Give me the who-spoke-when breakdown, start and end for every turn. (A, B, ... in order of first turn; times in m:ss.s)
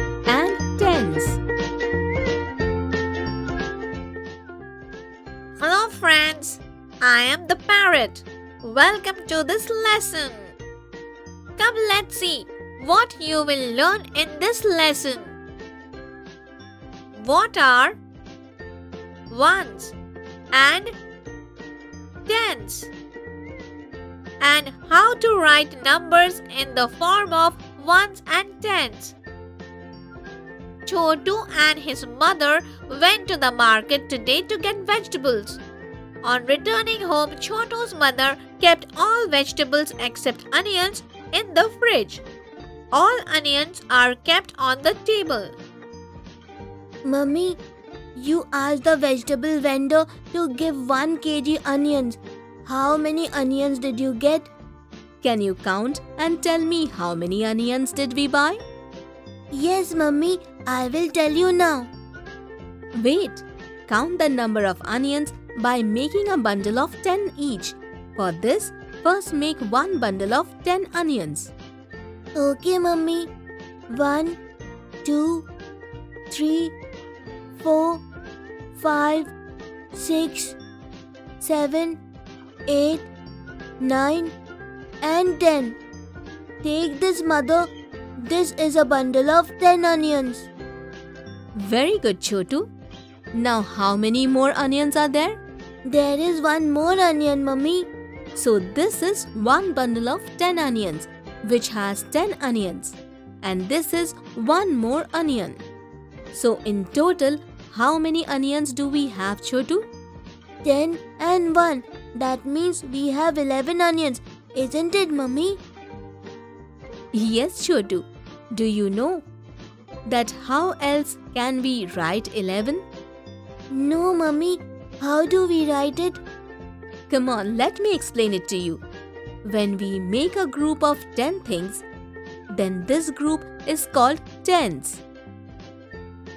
0:00.3-0:01.4 A
0:05.6-0:10.5 B
0:11.6-0:15.3 B
0:17.2-0:18.0 B
0:19.3-0:19.9 B
0:20.5-0:20.9 B
0:22.3-0:22.9 B
0:24.4-0:29.2 B
0:30.8-0:35.6 B
0:36.2-0:42.2 B
0:42.9-0:45.6 B
0:47.0-0:47.6 C
0:48.1-0:54.5 C
0:55.2-0:58.6 A
0:59.5-1:01.9 C
1:02.9-1:11.5 A
1:12.4-1:13.3 C
1:13.9-1:14.4 C
1:15.0-1:15.5 C
1:16.3-1:16.7 C
1:17.6-1:18.0 C
1:18.7-1:19.3 C
1:19.9-1:20.6 C
1:21.4-1:22.0 C
1:22.7-1:23.1 C
1:23.8-1:24.3 C
1:25.0-1:25.8 C
1:26.6-1:30.5 C
1:31.5-1:32.7 A
1:33.3-1:35.4 A
1:35.8-1:37.9 C
1:38.3-1:45.6 A
1:46.3-1:49.9 A
1:50.6-1:55.6 C
1:57.1-1:59.2 A
2:00.0-2:02.8 A
2:03.7-2:06.2 C
2:07.1-2:08.8 A
2:09.4-2:11.8 A
2:12.5-2:15.0 A